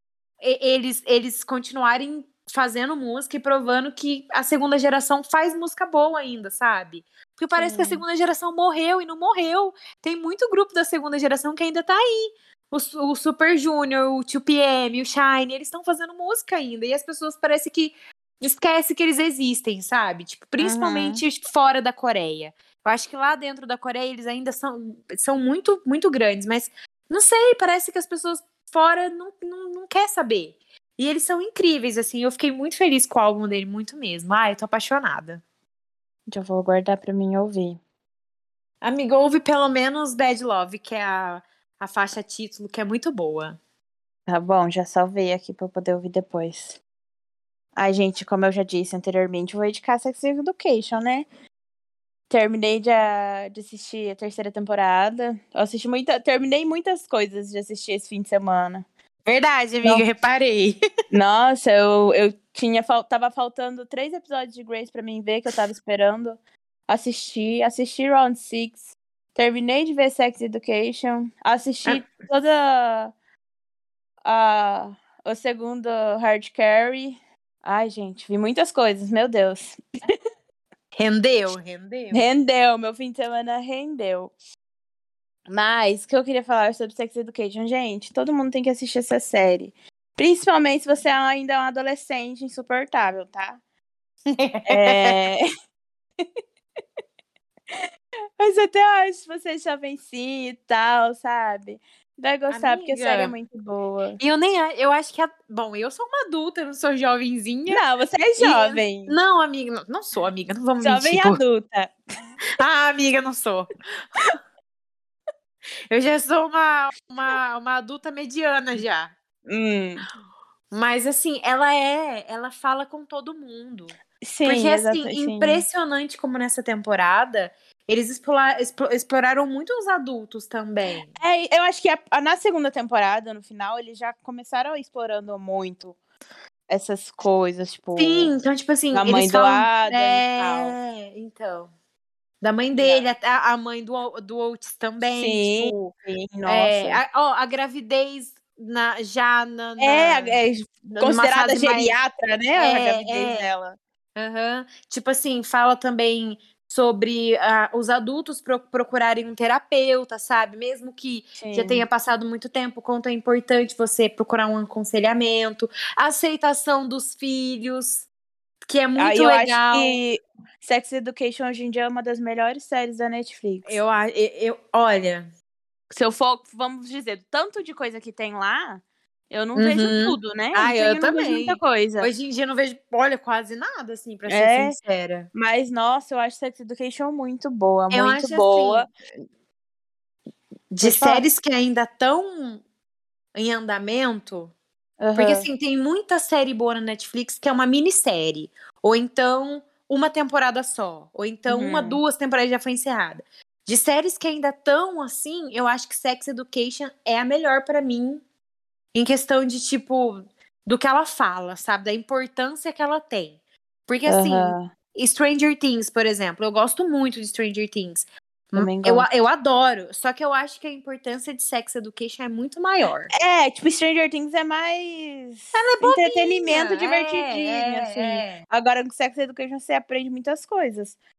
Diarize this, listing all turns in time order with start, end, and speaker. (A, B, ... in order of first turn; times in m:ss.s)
0:00.4-0:35.4 A
0:07.6-0:08.0 B
0:20.6-0:21.2 B
0:36.3-0:37.8 B
0:38.8-0:43.6 A
0:44.3-0:46.8 B
0:47.8-0:51.3 B
0:52.3-0:58.9 B
0:59.3-1:00.8 A
1:01.1-1:13.1 B
1:14.2-1:19.8 B
1:21.0-1:22.2 A
1:22.1-1:24.3 B
1:25.5-1:33.6 B
1:34.3-1:35.2 A
1:34.7-1:35.4 B
1:38.4-1:44.2 B
1:42.5-1:43.3 A
1:44.2-1:47.8 A
1:47.7-1:49.2 B
1:48.4-1:51.4 A
1:50.8-1:52.0 B
1:52.6-1:53.7 A
1:55.9-1:59.1 A
1:59.5-2:00.0 B
2:00.7-2:11.1 A
2:04.2-2:05.6 B
2:11.2-2:16.0 B
2:16.7-2:18.4 B
2:18.0-2:21.7 A
2:18.9-2:20.8 B
2:22.4-2:25.9 A
2:22.8-2:23.1 B
2:25.1-2:27.0 B
2:26.5-2:30.4 A
2:29.8-2:33.8 B
2:31.0-2:32.0 A
2:32.6-2:33.5 A
2:34.2-2:48.1 A
2:41.4-2:41.9 B
2:48.6-2:50.0 A
2:49.0-2:53.8 B
2:53.6-2:55.3 A
2:55.9-3:02.1 B
2:59.6-3:05.3 A
3:04.3-3:04.8 B
3:05.3-3:08.9 B
3:07.9-3:08.9 A
3:10.8-3:12.6 A
3:10.8-3:11.3 B
3:13.4-3:14.5 A
3:15.0-3:15.5 B
3:15.2-3:28.2 A
3:21.5-3:22.0 B
3:28.9-3:43.1 A
3:34.1-3:34.7 B
3:38.6-3:39.1 B
3:43.1-3:51.0 B
3:45.5-3:48.4 A